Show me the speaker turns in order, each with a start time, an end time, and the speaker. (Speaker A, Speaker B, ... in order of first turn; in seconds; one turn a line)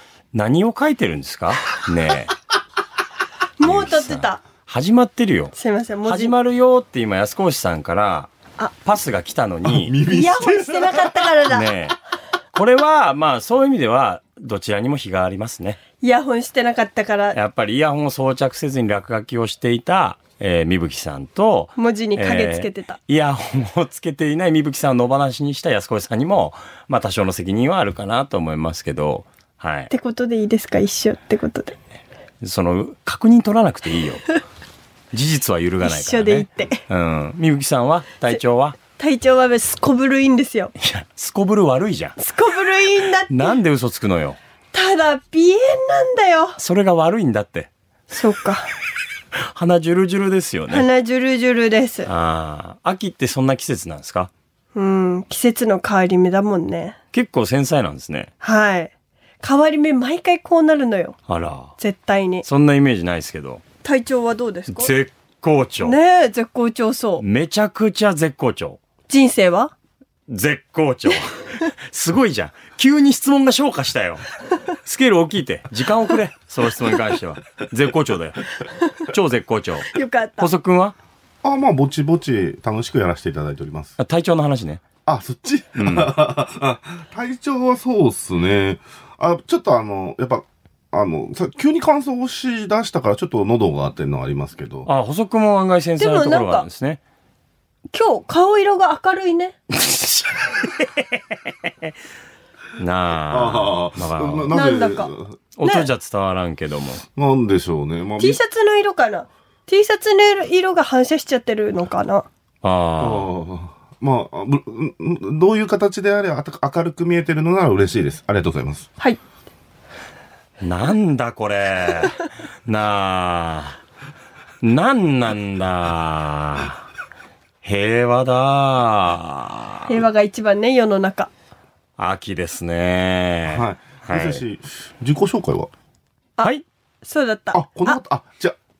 Speaker A: 0.3-2.3
Speaker B: 3.6-4.4
Speaker A: 3.6-5.5
Speaker B: 5.5-6.3
Speaker A: 6.0-8.3
Speaker A: 8.8-9.9
Speaker C: 9.6-11.4
Speaker B: 10.0-11.7
Speaker A: 11.5-11.9
Speaker A: 12.5-15.8
Speaker B: 16.0-17.4
Speaker A: 17.3-29.9
Speaker B: 21.8-23.0
Speaker B: 29.9-31.8
Speaker A: 32.4-34.2
Speaker A: 35.1-38.8
Speaker B: 35.8-36.8
Speaker B: 39.0-40.7
Speaker A: 40.8-42.2
Speaker B: 42.2-43.6
Speaker A: 43.3-44.4
Speaker B: 44.7-46.6
Speaker A: 46.6-47.7
Speaker B: 48.1-48.7
Speaker A: 49.5-50.9
Speaker B: 50.7-52.1
Speaker A: 52.0-54.3
Speaker B: 54.7-57.0
Speaker A: 57.1-58.3
Speaker B: 58.4-58.9
Speaker B: 59.4-61.2
Speaker A: 61.3-61.7
Speaker B: 61.8-62.4
Speaker A: 62.4-63.6
Speaker B: 63.8-64.9
Speaker A: 64.7-66.0
Speaker B: 65.8-67.2
Speaker A: 67.2-68.8
Speaker B: 69.1-69.7
Speaker A: 70.3-74.2
Speaker A: 74.8-81.0
Speaker B: 79.9-80.5
Speaker C: 81.4-84.0
Speaker A: 84.0-84.8
Speaker C: 85.0-94.9
Speaker A: 85.8-86.2
Speaker A: 94.8-97.0
Speaker B: 96.0-96.7
Speaker B: 97.9-99.5
Speaker A: 99.7-101.2
Speaker A: 102.8-104.5
Speaker C: 103.3-105.3
Speaker B: 104.5-105.1
Speaker A: 105.6-107.0
Speaker C: 107.2-108.4
Speaker B: 108.2-112.2
Speaker A: 112.6-113.3
Speaker C: 113.0-118.9
Speaker A: 120.6-123.8
Speaker A: 124.6-126.8
Speaker A: 127.6-130.0
Speaker B: 129.9-131.3
Speaker A: 132.0-134.4
Speaker C: 133.5-135.7
Speaker B: 137.0-138.0
Speaker C: 137.5-138.6